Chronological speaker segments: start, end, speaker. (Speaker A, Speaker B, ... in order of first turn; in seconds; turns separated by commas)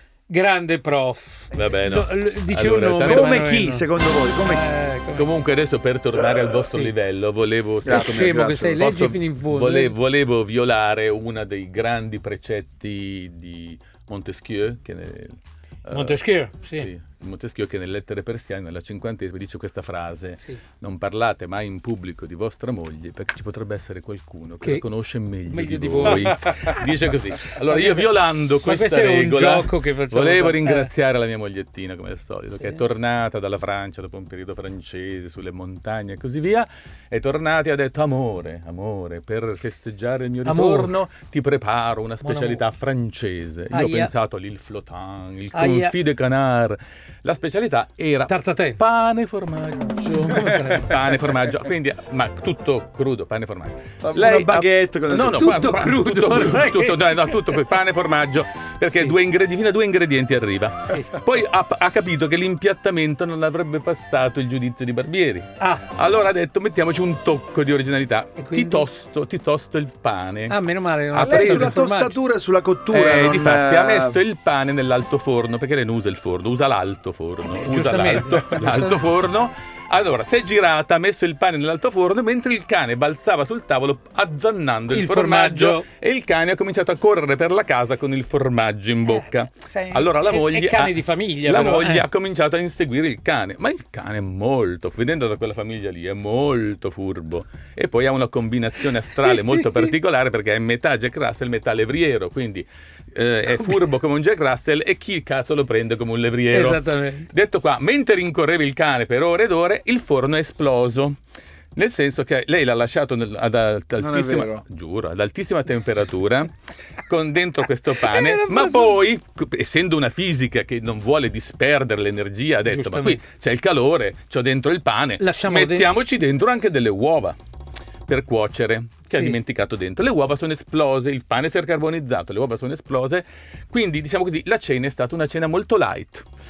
Speaker A: 0.3-3.9, Speaker B: 1.5-2.0, Speaker C: 1.5-3.4, Speaker B: 3.0-4.6, Speaker A: 4.4-5.3, Speaker C: 5.2-70.6, Speaker B: 7.8-9.0, Speaker A: 7.8-9.9, Speaker A: 15.9-16.9, Speaker A: 25.5-26.9, Speaker A: 27.5-28.1, Speaker A: 28.6-30.9, Speaker A: 40.4-40.9, Speaker A: 42.2-42.6, Speaker A: 43.7-44.1, Speaker A: 45.5-45.9, Speaker A: 48.3-48.8, Speaker A: 50.1-51.0, Speaker B: 54.0-55.5, Speaker A: 55.3-57.5, Speaker A: 58.8-59.1, Speaker A: 60.9-61.2, Speaker A: 65.6-65.9, Speaker A: 68.4-68.8, Speaker A: 70.5-72.2, Speaker C: 71.1-71.8, Speaker B: 71.2-74.2, Speaker C: 72.9-90.9, Speaker A: 77.6-79.0, Speaker A: 84.9-85.9, Speaker A: 89.0-92.1, Speaker C: 91.5-111.2, Speaker A: 99.2-99.9, Speaker A: 106.5-107.3, Speaker C: 111.8-116.5, Speaker B: 114.0-114.6, Speaker C: 117.1-127.3, Speaker A: 118.0-119.0, Speaker A: 122.7-123.2, Speaker A: 125.2-125.9, Speaker C: 128.1-136.2, Speaker A: 129.1-129.4